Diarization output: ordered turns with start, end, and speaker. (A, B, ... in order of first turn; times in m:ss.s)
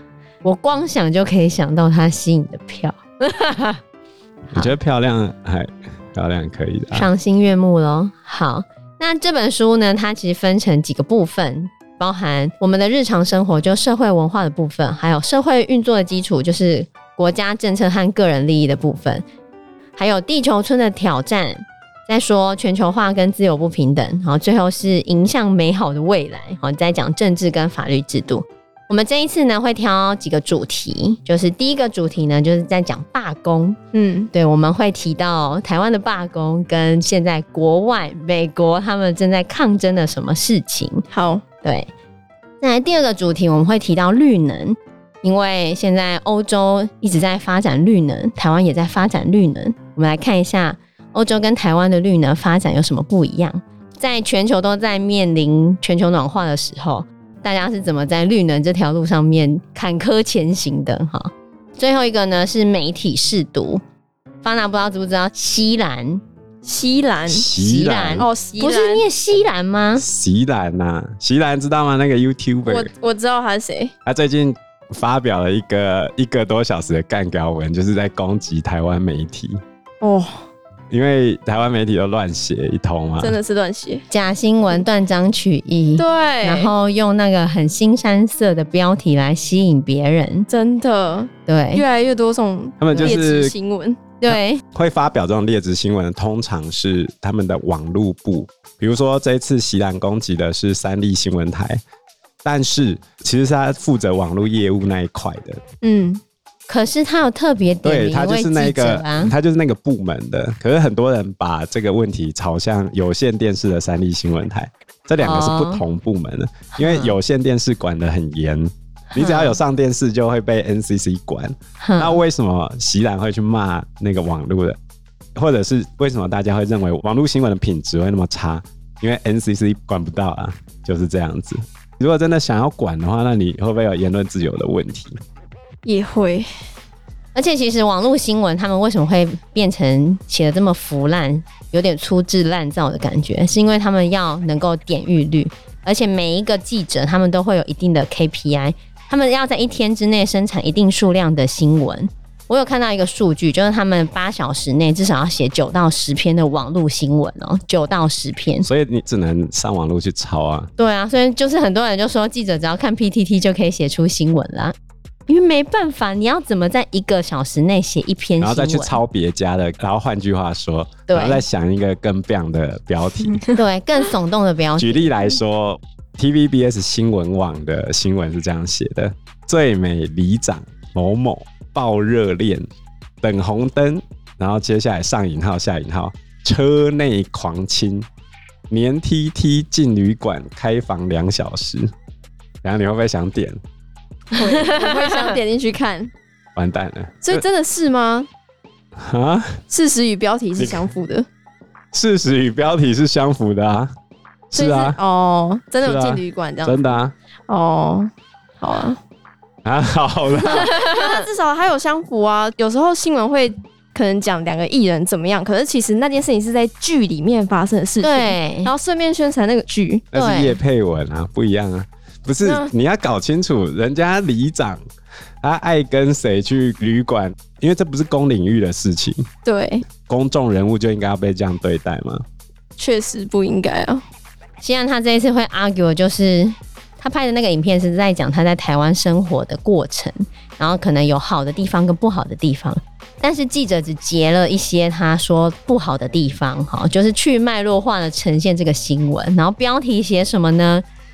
0:00.4-0:03.8 A
0:04.5-0:04.8 A
0:04.5-0:07.1 B
0:06.9-0:19.2 A
0:20.0-0:33.8 A
0:33.9-0:34.3 C
0:34.3-0:41.0 A
0:41.1-0:41.4 C
0:41.6-0:41.9 A
0:42.6-1:03.8 A
1:04.4-1:06.2 A
1:06.6-1:07.4 C
1:07.3-1:08.3 B
1:07.5-1:10.0 A
1:08.2-1:09.0 C
1:10.0-1:12.9 B
1:12.6-1:13.9 C
1:14.0-1:19.6 B
1:20.0-1:20.4 C
1:20.9-1:23.4 B
1:23.2-1:24.0 C
1:24.1-1:30.5 A
1:26.0-1:26.7 C
1:30.5-1:34.0 C
1:31.4-1:31.8 A
1:32.8-1:33.5 B
1:34.2-1:34.6 A
1:34.3-1:41.8 B
1:42.4-1:45.6 B
1:45.8-1:46.2 C
1:46.7-1:49.4 A
1:47.8-2:04.8 B
1:55.2-1:55.8 A
1:56.8-1:57.2 A
1:59.1-1:59.6 A
2:01.8-2:02.2 A
2:05.4-2:15.2 B
2:15.8-2:16.5 C
2:17.4-2:38.7 A
2:38.6-2:40.7 B
2:40.8-2:44.8 A
2:45.3-2:49.0 A
2:48.4-2:53.4 B
2:51.1-2:51.4 A
2:53.3-2:53.6 C
2:53.5-2:55.4 A
2:54.8-3:02.6 B
3:03.2-3:08.1 B
3:08.7-3:11.9 B
3:12.6-3:13.6 B
3:14.3-3:16.1 C
3:16.6-3:17.4 B
3:17.2-3:18.3 C
3:19.0-3:19.6 B
3:19.7-3:21.3 C
3:20.6-3:20.9 B
3:21.9-3:23.9 B
3:24.5-3:25.0 B
3:24.5-3:26.8 C
3:25.8-3:27.1 B
3:27.5-3:29.0 C
3:29.6-3:30.7 B
3:30.4-3:40.1 C
3:38.0-3:38.7 A
3:40.1-3:44.8 B
3:40.1-3:40.6 A
3:42.4-3:42.7 C
3:45.4-3:49.3 B
3:49.4-3:49.8 C
3:50.0-3:52.2 B
3:52.8-3:54.0 C
3:54.6-4:10.8 A